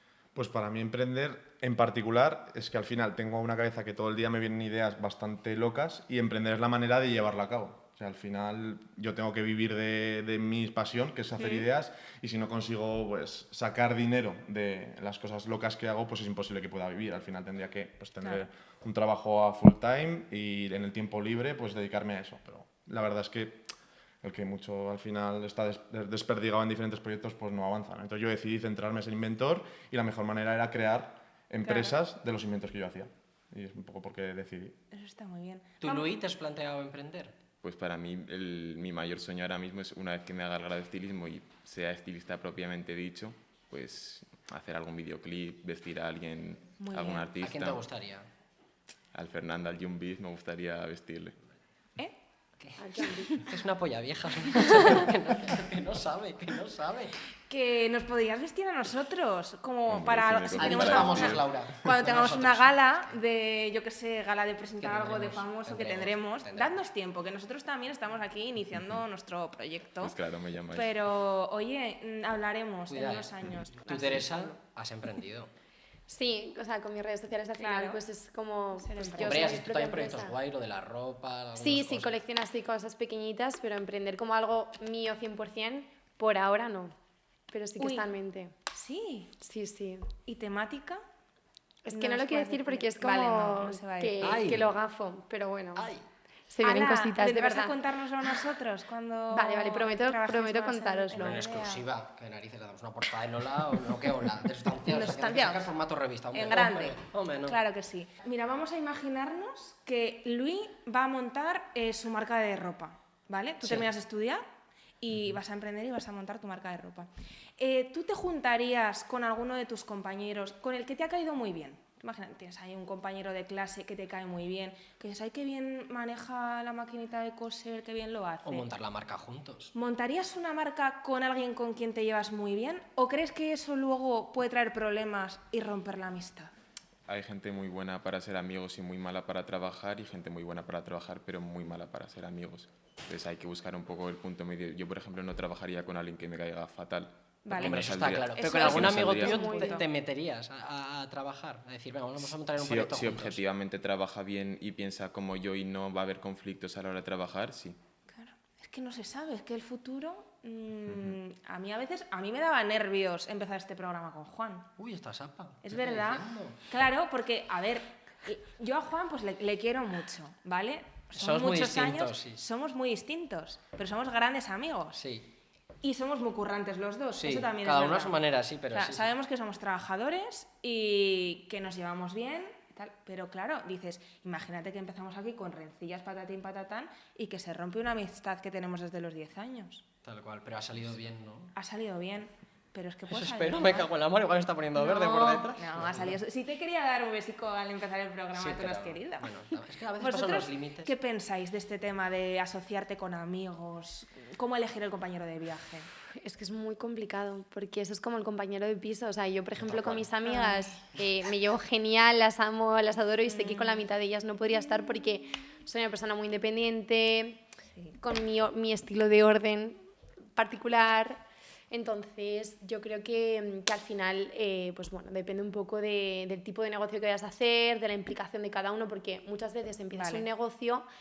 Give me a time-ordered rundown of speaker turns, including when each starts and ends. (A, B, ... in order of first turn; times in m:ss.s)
0:00.4-0:23.7 A
0:11.4-0:11.7 B
0:24.2-0:34.8 A
0:31.6-0:32.0 B
0:34.9-0:36.2 B
0:35.8-0:37.3 C
0:37.6-0:47.8 D
0:46.8-0:47.3 B
0:47.4-0:48.3 C
0:49.1-0:51.4 D
0:52.6-0:57.2 C
0:52.8-0:53.4 E
0:54.5-0:55.1 B
0:57.5-1:10.2 B
0:59.9-1:01.6 D
1:00.6-1:03.1 C
1:04.8-1:06.8 C
1:10.0-1:11.0 D
1:10.7-1:14.6 B
1:12.9-1:15.5 C
1:16.1-1:20.4 E
1:17.6-1:18.0 B
1:18.8-1:19.6 B
1:19.2-1:22.2 C
1:21.6-1:27.0 E
1:27.5-1:28.6 E
1:27.8-1:28.1 B
1:28.7-1:29.3 B
1:29.4-1:30.1 E
1:30.3-1:31.0 B
1:31.8-1:35.9 E
1:31.9-1:34.4 B
1:34.2-1:34.7 C
1:35.8-1:36.0 C
1:36.5-1:37.8 E
1:36.6-1:41.9 B
1:39.3-1:41.4 E
1:41.2-1:47.6 C
1:44.8-1:45.7 B
1:46.3-1:54.4 B
1:53.6-1:53.9 C
1:55.0-2:08.7 B
2:08.4-2:09.7 C
2:09.7-2:16.5 B
2:17.1-2:29.4 D
2:27.4-2:29.9 B
2:27.6-2:33.4 C
2:29.2-2:29.8 E
2:32.4-2:37.8 D
2:38.1-2:44.7 B
2:44.8-2:46.6 C
2:45.6-2:55.0 B
2:51.1-2:52.4 C
2:54.9-2:55.3 C
2:55.8-2:58.2 B
2:57.2-2:59.1 C
2:58.7-3:09.8 B
3:10.0-3:11.5 C
3:11.6-3:13.9 B
3:13.1-3:16.2 C
3:14.8-3:19.3 B
3:18.4-3:20.9 C
3:20.0-3:25.9 B
3:26.2-3:37.4 E
3:29.6-3:30.0 C
3:30.3-3:30.6 B
3:33.2-3:33.9 B
3:38.0-3:39.8 E
3:40.4-3:50.9 E
3:49.9-3:50.3 B